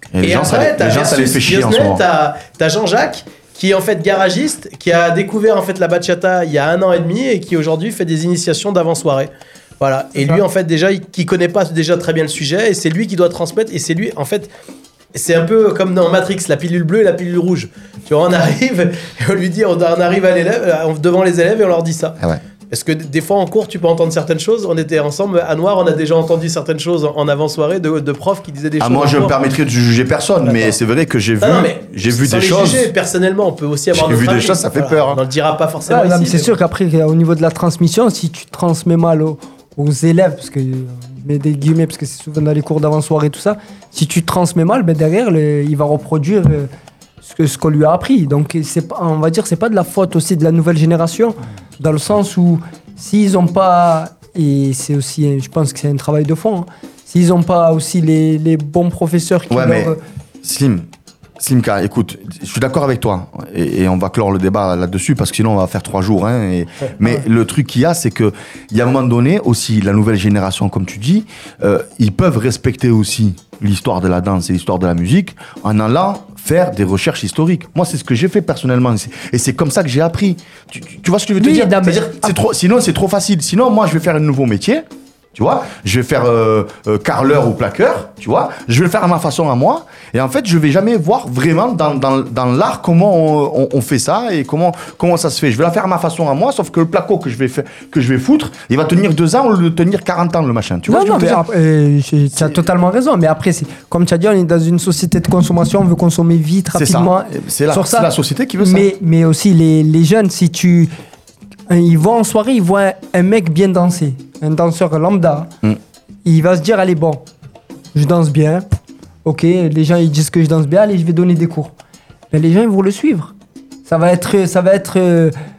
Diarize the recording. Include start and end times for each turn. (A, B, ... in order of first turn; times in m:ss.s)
0:00.1-0:02.0 A
0:00.2-0:14.5 B
0:15.1-0:22.2 B
0:22.7-0:29.4 B
0:28.8-0:32.9 A
0:30.4-0:30.7 B
0:31.4-0:36.5 B
0:33.9-0:35.2 A
0:35.9-0:46.7 C
0:47.2-1:00.0 C
0:59.5-0:59.9 A
1:00.4-1:00.9 A
1:01.4-1:41.4 A
1:21.4-1:22.3 C
1:40.9-1:50.9 C
1:46.7-1:48.9 A
1:51.7-1:55.5 C
1:56.2-1:57.2 C
1:57.9-1:58.6 C
1:59.2-2:01.7 C
2:02.3-2:03.3 C
2:03.9-2:05.3 C